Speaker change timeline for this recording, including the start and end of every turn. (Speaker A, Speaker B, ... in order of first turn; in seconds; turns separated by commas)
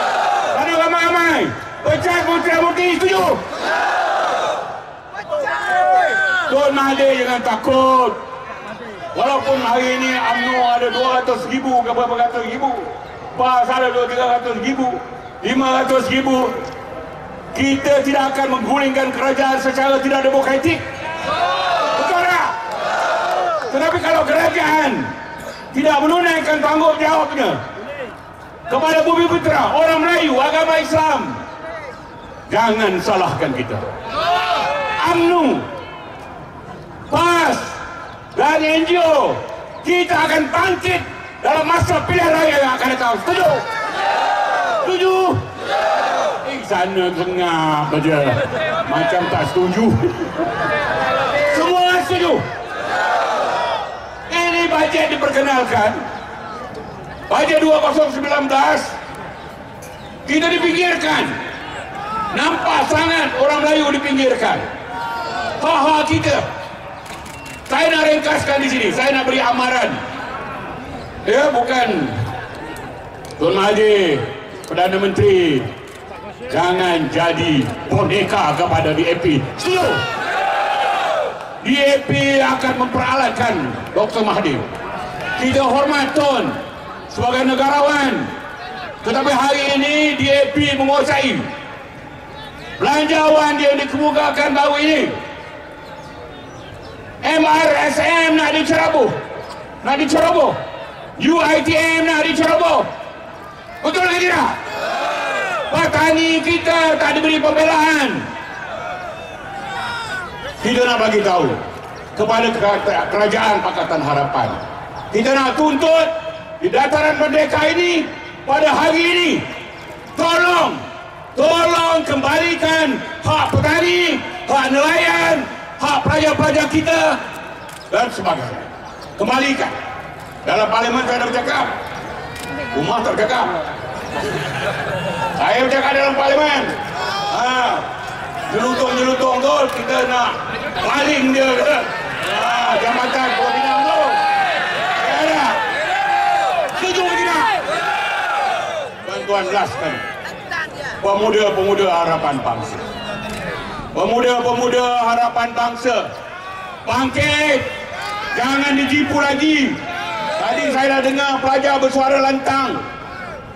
Speaker A: 0.5-3.4, Speaker A: 6.5-8.2, Speaker A: 9.1-16.6, Speaker A: 17.5-20.8, Speaker A: 21.8-22.6, Speaker A: 23.7-25.1, Speaker A: 25.7-27.6, Speaker A: 28.7-31.4, Speaker A: 32.5-33.9, Speaker A: 34.9-35.7, Speaker A: 37.1-37.8, Speaker A: 38.3-43.7, Speaker A: 44.8-45.5, Speaker A: 46.4-50.4, Speaker A: 51.4-52.4, Speaker A: 54.3-56.0, Speaker A: 57.3-59.0, Speaker A: 60.2-61.4, Speaker A: 62.3-64.7, Speaker A: 65.6-66.5, Speaker A: 67.7-70.0, Speaker A: 71.2-72.3, Speaker A: 73.4-75.7, Speaker A: 76.5-80.1, Speaker A: 81.6-84.7, Speaker A: 85.3-88.3, Speaker A: 89.0-91.5, Speaker A: 92.8-95.2, Speaker A: 97.2-99.2, Speaker A: 99.8-100.6, Speaker A: 101.2-102.9, Speaker A: 103.8-104.6, Speaker A: 105.7-108.3, Speaker A: 110.6-111.6, Speaker A: 112.1-119.5, Speaker A: 120.1-127.2, Speaker A: 127.9-129.8, Speaker A: 130.4-131.7, Speaker A: 132.7-133.5, Speaker A: 135.3-137.9, Speaker A: 138.5-144.2, Speaker A: 144.9-145.7, Speaker A: 146.7-147.6, Speaker A: 149.0-150.0, Speaker A: 151.0-152.8, Speaker A: 153.9-156.1, Speaker A: 156.8-157.7, Speaker A: 158.3-159.8, Speaker A: 160.3-162.8